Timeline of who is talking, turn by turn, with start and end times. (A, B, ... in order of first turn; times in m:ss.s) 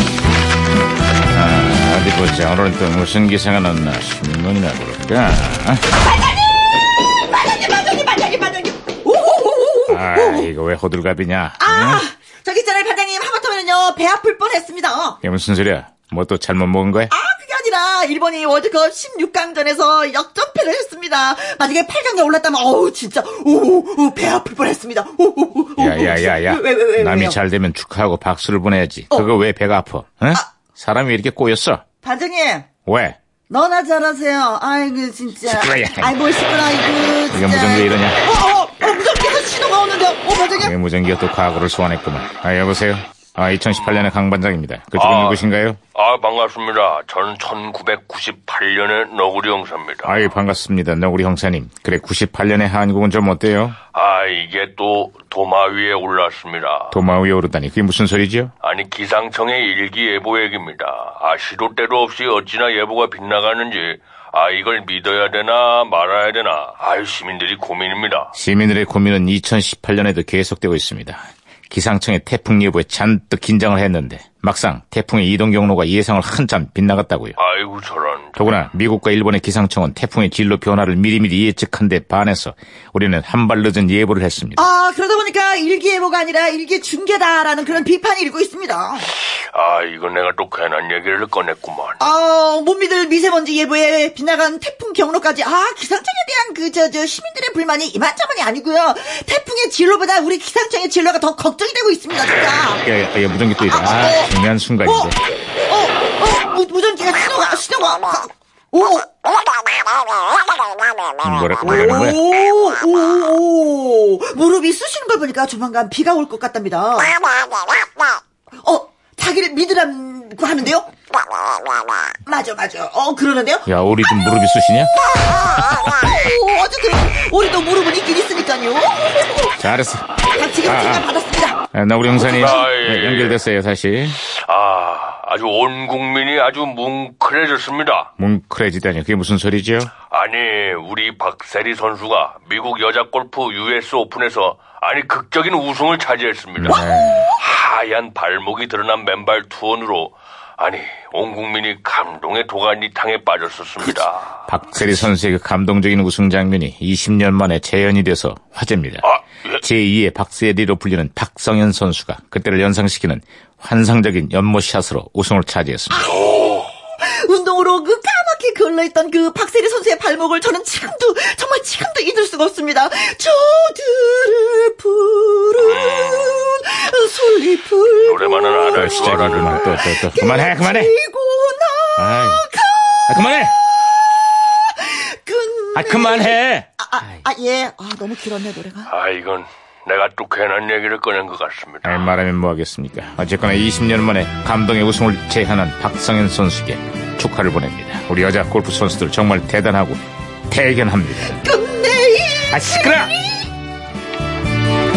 0:01.3-0:05.8 A
0:07.2-0:10.5 B
0:09.9-0:12.0 A
0:11.6-0:15.2 B
0:15.2-0:17.1 A
0:17.1-0:27.4 B
0:25.8-0:31.8 A
0:32.0-0:32.7 B
0:32.8-0:33.2 A
0:33.5-0:40.7 B
0:35.5-0:36.1 A
0:37.3-0:38.2 A
0:40.6-0:45.8 A
0:44.9-0:50.3 C
0:50.0-0:53.8 A
0:53.9-0:56.9 C
0:56.9-0:58.5 A
0:58.6-1:08.3 C
1:08.3-1:17.4 A
1:17.4-1:18.5 C
1:18.4-1:24.6 A
1:24.6-1:29.1 B
1:29.3-1:32.0 C
1:32.0-1:42.8 B
1:42.7-1:45.2 A
1:43.6-1:45.1 B
1:45.6-1:49.3 B
1:51.2-1:52.2 A
1:51.6-1:57.2 B
1:58.6-2:00.9 B
2:02.2-2:03.7 B
2:03.7-2:04.9 A
2:04.2-2:09.6 B
2:09.6-2:11.0 A
2:10.3-2:11.6 B
2:11.7-2:14.2 A
2:12.2-2:13.4 C
2:14.3-2:18.1 C
2:18.2-2:19.9 A
2:20.1-2:34.3 C
2:26.6-2:27.3 A
2:26.7-2:27.3 B
2:34.5-2:39.1 A
2:39.0-2:39.6 C
2:39.6-2:46.1 A
2:45.9-3:03.3 B
2:46.1-2:46.7 C
2:55.6-2:56.6 C
2:57.9-2:59.8 C
2:58.7-3:00.9 A
3:02.0-3:02.4 A
3:03.1-3:03.5 A
3:04.5-3:08.9 B
3:05.7-3:06.7 A
3:08.9-3:12.0 C
3:11.8-3:21.5 A
3:21.2-3:23.5 B
3:22.5-3:23.1 A